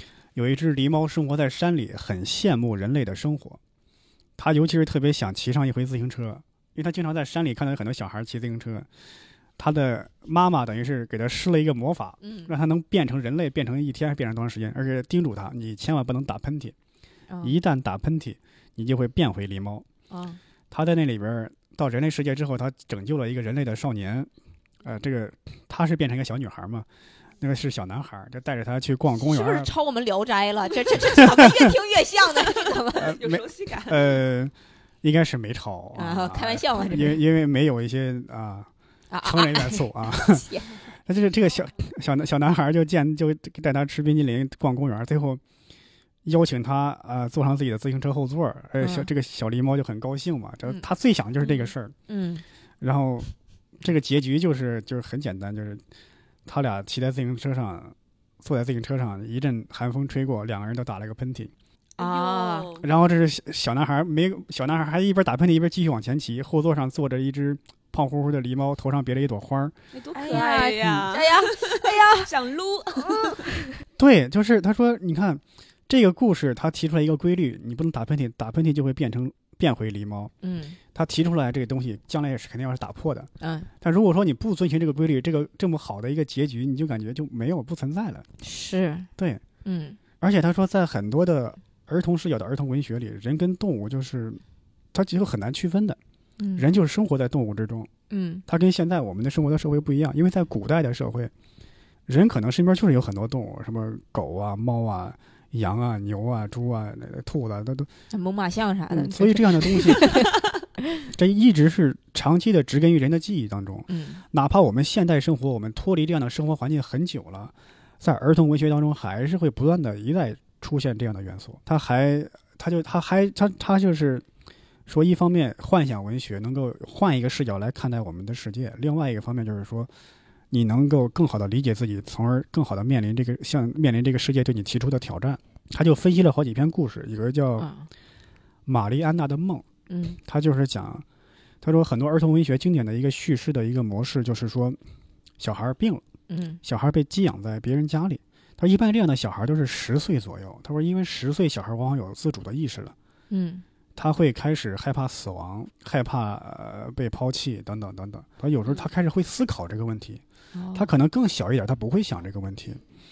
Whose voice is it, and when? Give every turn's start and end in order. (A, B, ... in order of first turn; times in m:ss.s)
0:00.4-0:03.6 A
0:04.4-0:08.9 A
0:09.6-0:16.8 A
0:12.2-0:12.5 B
0:17.3-0:17.6 B
0:17.4-0:19.9 A
0:20.1-0:20.4 B
0:20.7-0:24.3 A
0:24.8-0:26.9 A
0:27.4-0:29.7 A
0:29.2-0:33.2 B
0:31.2-0:31.6 A
0:33.0-0:38.7 A
0:33.1-0:34.2 C
0:36.0-0:37.2 B
0:39.1-0:40.8 B
0:39.2-0:45.4 A
0:46.2-0:52.0 A
0:48.8-0:49.1 B
0:52.1-0:52.4 B
0:52.8-0:53.3 A
0:53.8-0:55.8 A
0:56.5-1:01.5 A
1:02.0-1:02.7 B
1:02.0-1:02.9 C
1:02.8-1:09.8 A
1:09.9-1:13.4 C
1:10.1-1:12.3 B
1:10.4-1:11.1 A
1:13.0-1:13.5 B
1:14.0-1:20.3 A
1:20.4-1:20.8 B
1:20.9-1:23.3 A
1:23.4-1:23.7 B
1:23.8-1:28.2 A
1:28.4-1:29.1 B
1:29.2-1:29.4 A
1:29.6-1:30.0 B
1:30.2-1:34.4 A
1:34.9-1:36.0 A
1:36.4-1:36.7 B
1:36.6-1:37.9 A
1:38.1-1:38.4 B
1:38.5-1:41.3 A
1:42.1-1:47.9 A
1:48.1-1:50.3 B
1:48.9-1:50.2 A
1:51.1-2:04.2 A
1:53.9-1:54.2 B
2:04.9-2:09.9 A
2:10.5-2:17.7 A
2:17.6-2:17.9 B
2:18.7-2:19.6 A
2:19.9-2:20.2 B
2:20.2-2:21.0 A
2:21.6-2:24.8 A
2:25.4-2:26.0 A
2:26.3-2:26.6 B
2:26.6-2:33.0 A
2:33.3-2:33.6 B
2:34.0-2:40.2 A
2:40.6-2:40.9 B
2:40.7-2:42.8 A